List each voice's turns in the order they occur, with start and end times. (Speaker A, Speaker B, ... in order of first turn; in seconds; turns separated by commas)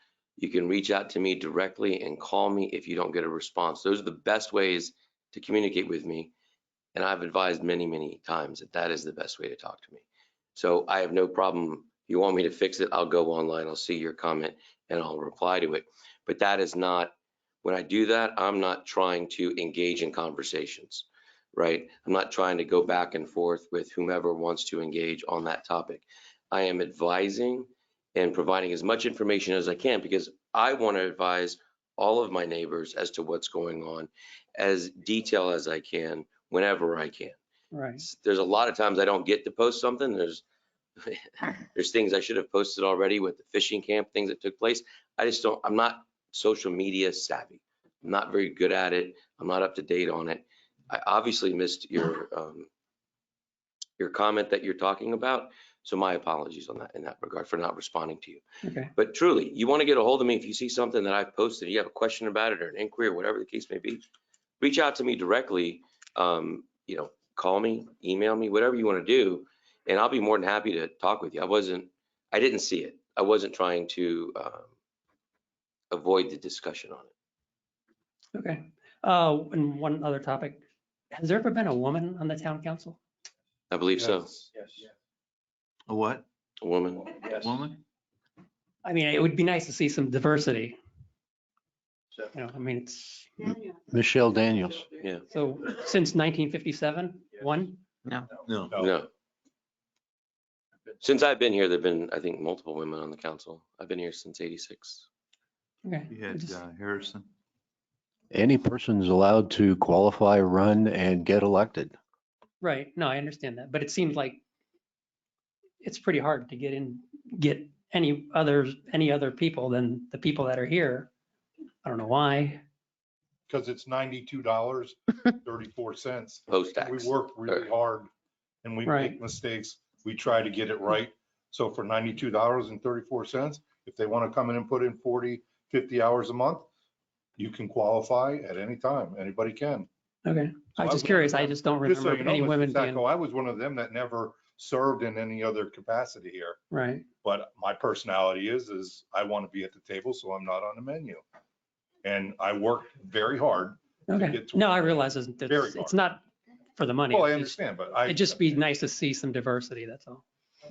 Speaker A: 0.4-6.3, Speaker A: 6.9-10.0, Speaker A: 10.5-37.4, Speaker B: 37.7-38.0, Speaker A: 38.0-40.4, Speaker A: 41.0-52.7, Speaker A: 54.0-58.4, Speaker B: 58.6-58.9, Speaker A: 59.0-64.0, Speaker A: 64.6-74.7, Speaker A: 75.9-77.1, Speaker B: 78.3-83.0, Speaker A: 83.7-84.5, Speaker C: 85.9-86.2, Speaker A: 86.6-87.1, Speaker C: 87.2-87.8, Speaker B: 88.8-90.8, Speaker B: 92.3-93.6, Speaker D: 93.9-94.8, Speaker B: 95.3-97.8, Speaker C: 98.3-98.7, Speaker A: 98.7-99.1, Speaker A: 101.0-105.0, Speaker B: 105.8-106.6, Speaker C: 106.1-107.3, Speaker D: 108.3-111.9, Speaker B: 112.6-114.4, Speaker B: 115.8-121.1, Speaker B: 121.8-122.6, Speaker E: 123.5-128.1, Speaker A: 126.5-127.7, Speaker E: 128.6-136.7, Speaker B: 128.8-129.2, Speaker E: 137.4-139.9, Speaker B: 140.2-143.0, Speaker E: 140.8-146.6, Speaker B: 146.7-147.1, Speaker E: 147.2-151.2, Speaker E: 152.0-155.9, Speaker B: 154.1-156.2, Speaker B: 156.8-160.2, Speaker E: 157.1-158.4